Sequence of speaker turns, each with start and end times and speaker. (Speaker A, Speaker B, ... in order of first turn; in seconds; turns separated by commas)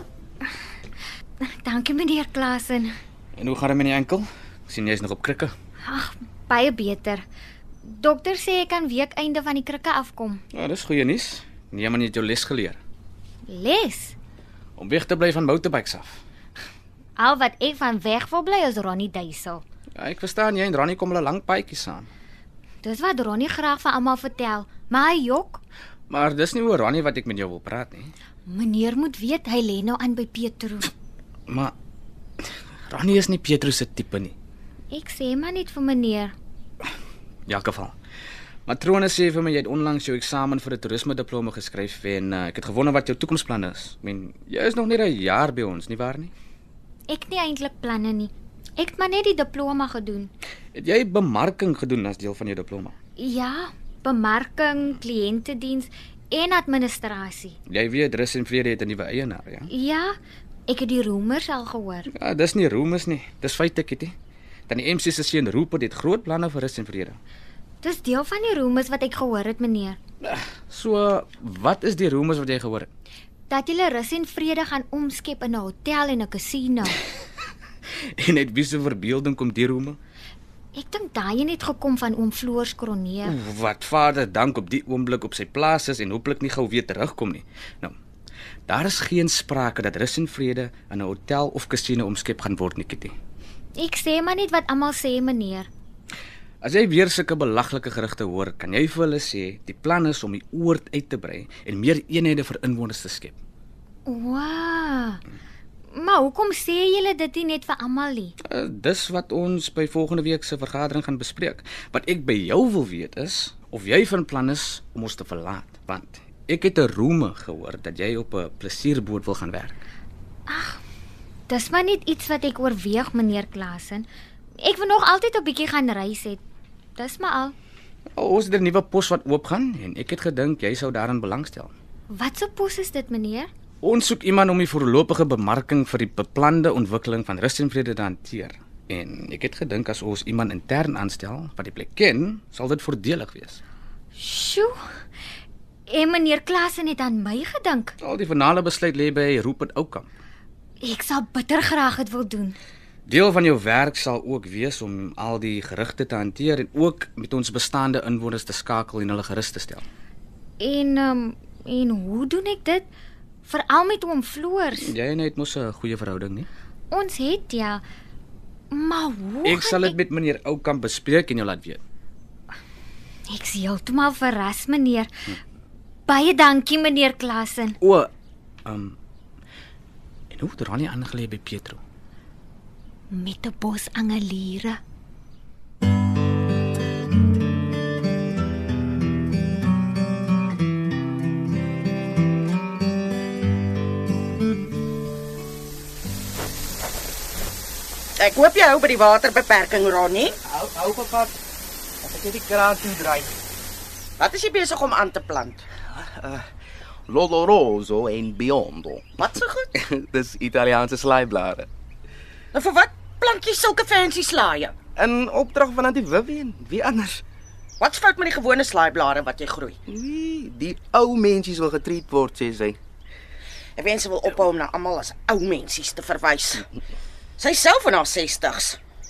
Speaker A: 1.4-2.9, Speaker B: 3.4-5.5, Speaker A: 5.8-7.2, Speaker A: 7.8-10.4, Speaker B: 10.5-12.8, Speaker A: 13.5-14.2, Speaker B: 14.8-16.2, Speaker A: 17.2-19.6, Speaker B: 20.0-22.1, Speaker A: 22.8-25.6, Speaker B: 26.1-28.1, Speaker A: 28.5-30.9, Speaker B: 31.5-31.7, Speaker B: 32.9-34.4, Speaker A: 34.9-36.3, Speaker B: 37.5-37.9, Speaker B: 38.7-46.3, Speaker A: 47.1-50.3, Speaker B: 50.8-52.9, Speaker A: 53.2-57.6, Speaker B: 57.7-59.7, Speaker A: 59.7-60.1, Speaker A: 60.7-62.1, Speaker B: 62.1-64.2, Speaker B: 64.7-67.2, Speaker A: 67.8-70.0, Speaker B: 70.2-72.9, Speaker A: 73.5-77.0, Speaker B: 78.2-80.0, Speaker A: 80.8-83.3, Speaker B: 83.2-87.9, Speaker B: 88.7-93.1, Speaker A: 93.8-95.7, Speaker B: 96.6-103.4, Speaker A: 104.1-105.2, Speaker A: 105.9-108.3, Speaker B: 108.5-119.8, Speaker A: 120.5-120.8, Speaker A: 121.5-124.1, Speaker A: 124.6-126.4, Speaker A: 127.0-127.5, Speaker B: 128.1-131.7, Speaker A: 132.1-133.5, Speaker B: 133.8-143.6, Speaker A: 144.2-144.8, Speaker A: 145.9-147.9, Speaker B: 148.0-150.1, Speaker A: 150.8-152.6, Speaker B: 153.1-159.8, Speaker A: 160.6-162.9, Speaker A: 163.4-164.9, Speaker B: 164.8-166.5, Speaker A: 166.9-167.8, Speaker A: 168.7-169.9, Speaker B: 169.4-171.8, Speaker A: 173.3-175.1, Speaker A: 176.1-177.8, Speaker B: 177.8-178.1, Speaker B: 178.7-179.0, Speaker B: 180.3-181.8, Speaker A: 183.1-184.8, Speaker C: 198.2-200.4, Speaker D: 200.4-201.3, Speaker D: 202.0-203.3, Speaker C: 204.2-205.7, Speaker D: 205.9-206.4, Speaker D: 207.1-211.7, Speaker C: 209.2-209.7, Speaker C: 212.5-214.8, Speaker D: 215.0-217.2, Speaker C: 217.8-219.8, Speaker D: 219.9-222.8, Speaker C: 223.8-226.7, Speaker C: 227.4-228.8